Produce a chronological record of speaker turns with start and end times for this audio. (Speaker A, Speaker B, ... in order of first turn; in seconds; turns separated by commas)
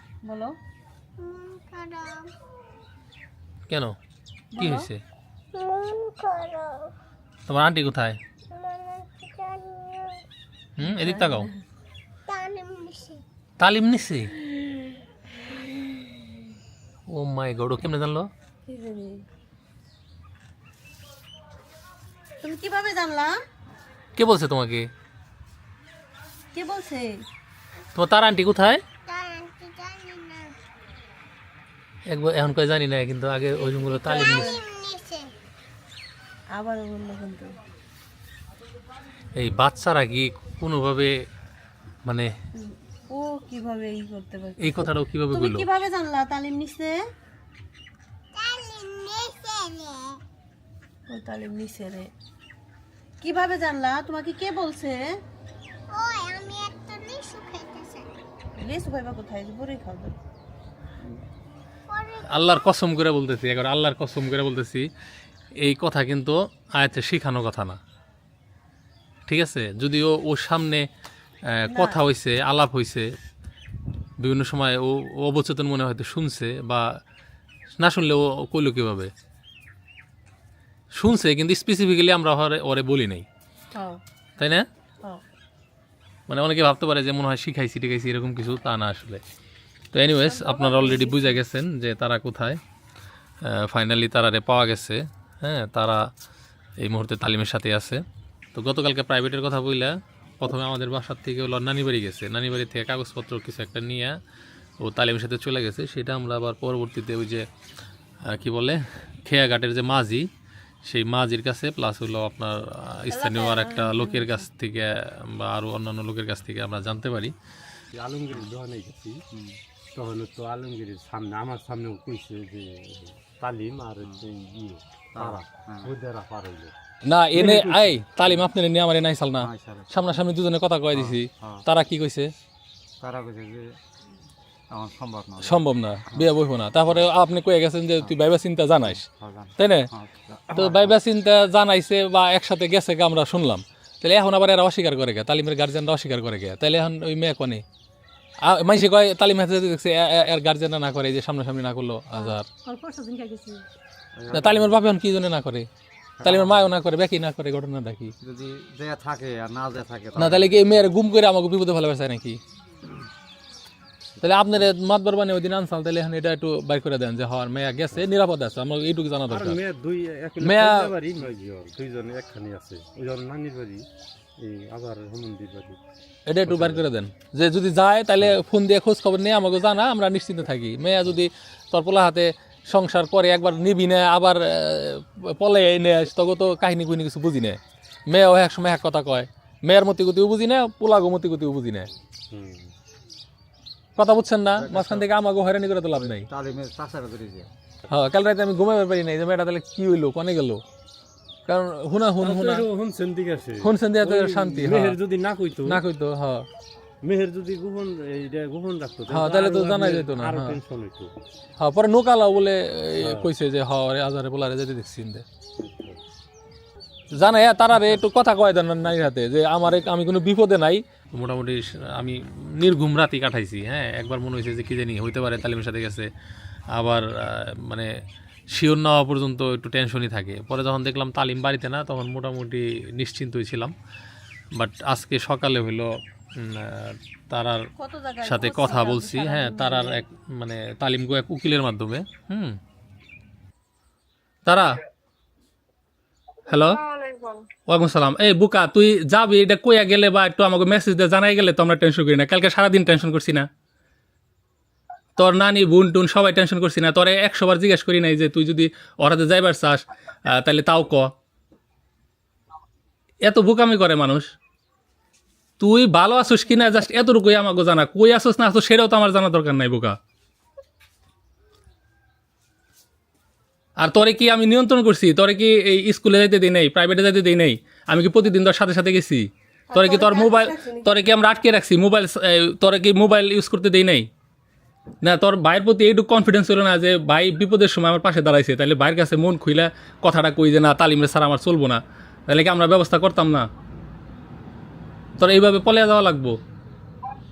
Speaker A: 0.2-0.6, Speaker B: 1.2-2.3, Speaker C: 3.7-4.0, Speaker A: 4.5-4.9, Speaker C: 4.6-5.0, Speaker B: 5.5-6.9, Speaker C: 7.5-8.2, Speaker B: 8.5-10.2, Speaker C: 10.8-11.5, Speaker A: 10.8-11.5, Speaker B: 12.3-13.2, Speaker C: 13.6-14.3, Speaker A: 15.5-16.0, Speaker C: 17.1-18.3, Speaker A: 18.7-19.2, Speaker A: 22.4-23.3, Speaker C: 24.1-24.9, Speaker A: 26.5-27.2, Speaker C: 27.9-28.8, Speaker B: 29.1-30.5, Speaker C: 32.1-34.6, Speaker A: 33.8-34.6, Speaker B: 34.2-35.3, Speaker A: 36.5-37.5, Speaker C: 39.4-41.1, Speaker C: 42.0-42.3, Speaker A: 42.6-44.8, Speaker C: 44.6-45.7, Speaker A: 45.3-46.9, Speaker B: 48.3-50.2, Speaker A: 51.1-52.1, Speaker A: 53.2-55.0, Speaker B: 55.9-58.1, Speaker A: 58.6-60.1, Speaker B: 61.9-62.4, Speaker C: 62.2-64.9, Speaker C: 65.6-67.8, Speaker C: 69.3-70.8, Speaker C: 71.5-73.1, Speaker A: 71.7-72.0, Speaker C: 74.2-76.8, Speaker C: 77.8-79.1, Speaker C: 80.9-83.2, Speaker C: 84.4-84.7, Speaker C: 86.3-89.2, Speaker C: 89.9-92.6, Speaker A: 90.1-91.3, Speaker C: 93.4-96.0, Speaker C: 96.8-98.0, Speaker C: 98.5-104.2, Speaker C: 104.8-107.5, Speaker C: 108.3-110.3, Speaker C: 110.8-117.3, Speaker A: 113.1-114.4, Speaker D: 117.9-119.2, Speaker E: 119.3-119.6, Speaker D: 119.9-126.7, Speaker E: 125.1-125.9, Speaker C: 127.0-132.3, Speaker D: 127.3-128.3, Speaker E: 129.4-130.0, Speaker E: 130.9-131.6, Speaker E: 133.0-133.8, Speaker E: 134.7-136.3, Speaker C: 135.4-139.1, Speaker E: 138.9-141.0, Speaker C: 139.6-139.9, Speaker C: 140.5-147.6, Speaker C: 148.4-152.5, Speaker A: 152.2-153.6, Speaker E: 154.1-154.8, Speaker C: 154.3-155.7, Speaker E: 156.2-156.7, Speaker C: 156.2-158.1, Speaker E: 158.2-160.9, Speaker C: 160.2-162.4, Speaker C: 164.2-169.6, Speaker D: 169.3-173.8, Speaker C: 170.4-170.9, Speaker D: 174.4-175.8, Speaker C: 176.3-191.9, Speaker D: 176.4-176.8, Speaker D: 192.3-192.7, Speaker C: 193.9-196.3, Speaker E: 194.6-195.1, Speaker E: 196.0-197.5, Speaker C: 197.9-200.6, Speaker C: 201.5-202.6, Speaker D: 202.2-205.8, Speaker C: 203.6-205.0, Speaker C: 205.6-206.4, Speaker D: 207.0-211.1, Speaker C: 209.1-210.6, Speaker C: 211.6-215.2, Speaker D: 213.0-213.3, Speaker D: 215.6-216.0, Speaker C: 217.1-226.1, Speaker C: 226.7-227.9, Speaker C: 228.5-233.7, Speaker C: 234.6-237.6, Speaker A: 237.8-240.1, Speaker C: 238.2-242.6, Speaker C: 244.4-244.8, Speaker C: 246.5-246.9, Speaker C: 247.7-253.5, Speaker C: 255.2-261.1, Speaker C: 263.2-264.3, Speaker C: 265.6-269.9, Speaker C: 273.8-284.1, Speaker A: 279.7-280.9, Speaker C: 285.0-293.5, Speaker C: 295.2-296.4